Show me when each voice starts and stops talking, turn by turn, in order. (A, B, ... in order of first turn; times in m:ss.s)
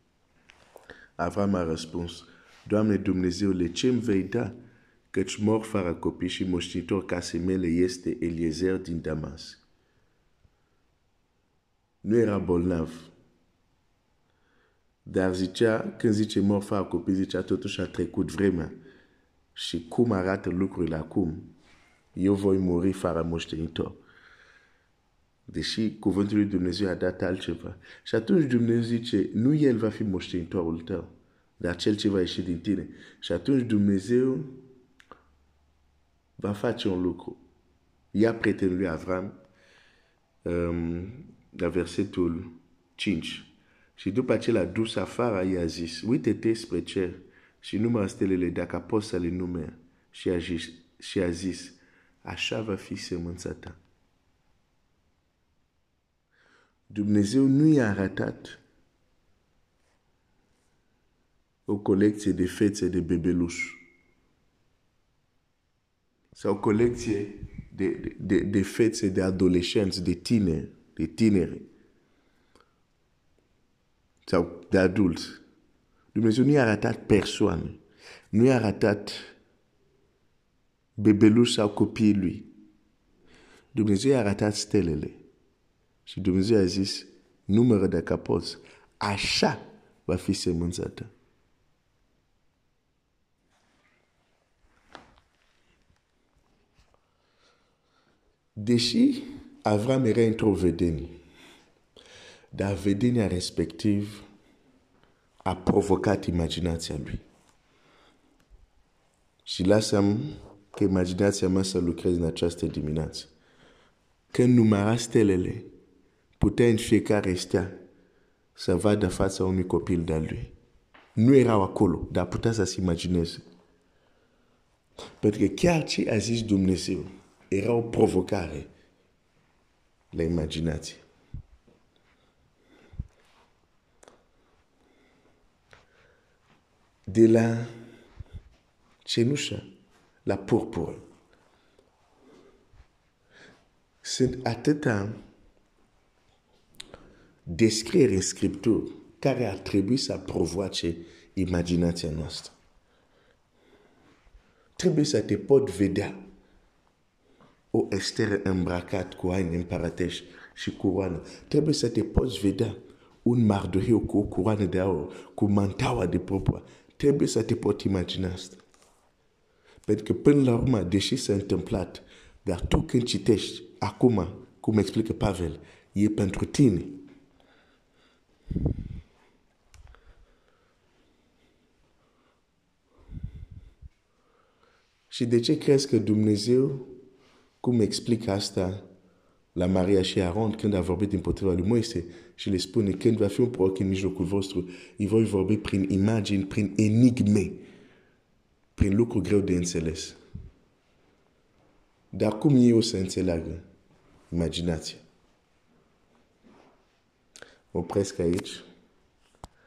0:01.2-0:04.6 A
0:05.1-0:09.6 A
0:12.0-0:13.1 A
0:15.1-0:18.7 A
0:19.6-0:21.5 A
0:22.2-0:24.0 A
0:25.5-0:34.6 A
0:36.4-0:37.4 A
0:38.1-0:39.4 A
0:40.4-0:53.8 A
0:56.9-0:58.6 A
1:01.7-1:03.8 A
1:06.3-1:11.7 A
1:14.3-1:15.4 A
1:16.1-1:17.8 A
1:18.3-1:19.3 A
1:21.0-1:22.5 A
1:23.7-1:25.2 A
1:26.1-1:31.1 A
1:38.6-1:41.1 A
1:42.5-1:44.2 A
1:45.4-1:47.2 A
1:49.4-1:53.3 A
1:54.3-1:55.7 A
1:56.4-1:57.7 A
1:58.6-2:00.5 A
2:01.2-2:03.4 A
2:05.2-2:08.7 A
2:10.1-2:11.0 A
2:17.1-2:17.7 A
2:19.0-2:19.6 A
2:20.3-2:21.0 A
2:24.0-2:25.2 A
2:27.5-2:32.5 A
2:34.8-2:36.2 A
2:37.7-2:48.6 A
2:49.9-2:57.0 A
3:05.1-3:07.0 A
3:07.6-3:08.8 A
3:09.6-3:17.6 A
3:18.8-3:20.2 A
3:22.1-3:23.6 A
3:24.3-3:25.0 A
3:27.7-3:28.6 A